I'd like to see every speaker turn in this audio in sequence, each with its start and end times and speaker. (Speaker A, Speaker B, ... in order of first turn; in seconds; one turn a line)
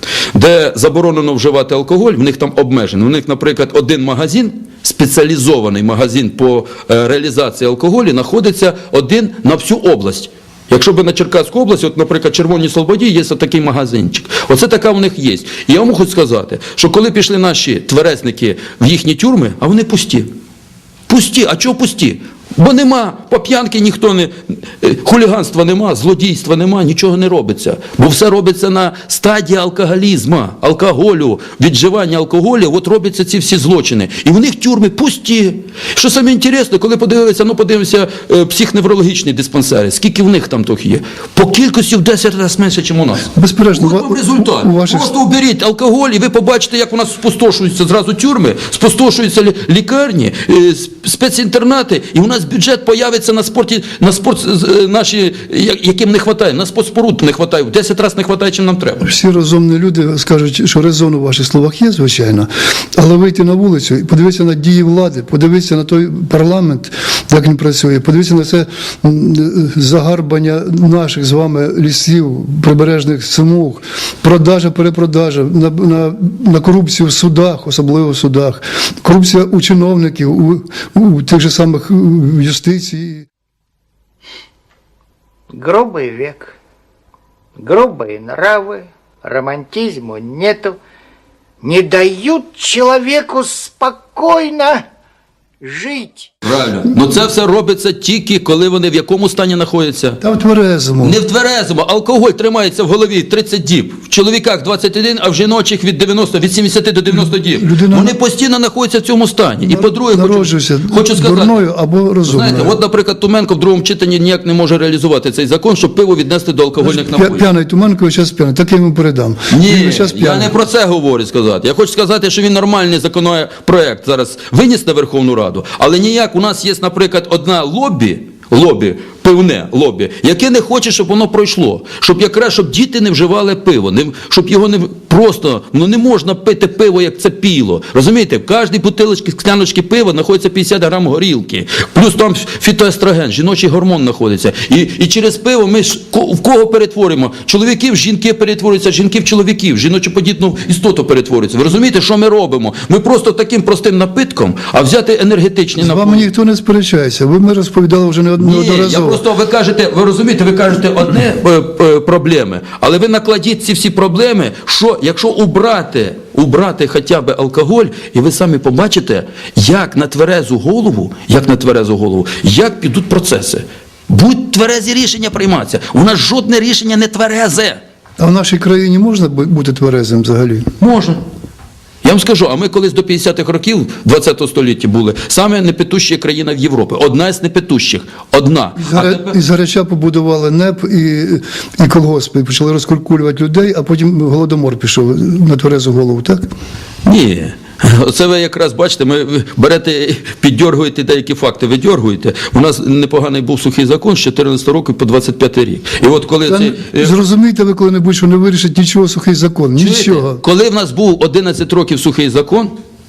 Speaker A: 0.3-20.3
Speaker A: 21.1-59.1
Speaker B: 43.4-45.1
Speaker B: 59.0-83.3
Speaker C: 85.5-86.6
Speaker C: 87.6-90.8
Speaker C: 91.6-94.8
Speaker C: 95.6-96.3
Speaker A: 96.4-100.2
Speaker B: 100.2-101.2
Speaker A: 101.0-111.6
Speaker B: 107.1-108.1
Speaker B: 109.6-112.8
Speaker A: 112.2-117.4
Speaker B: 116.8-120.5
Speaker A: 119.5-156.3
Speaker B: 155.8-159.2
Speaker A: 158.4-177.8
Speaker B: 178.2-180.7
Speaker A: 180.8-181.2
Speaker A: 182.0-189.4
Speaker B: 188.8-196.5
Speaker A: 197.1-207.2
Speaker B: 206.5-210.4
Speaker A: 209.8-212.7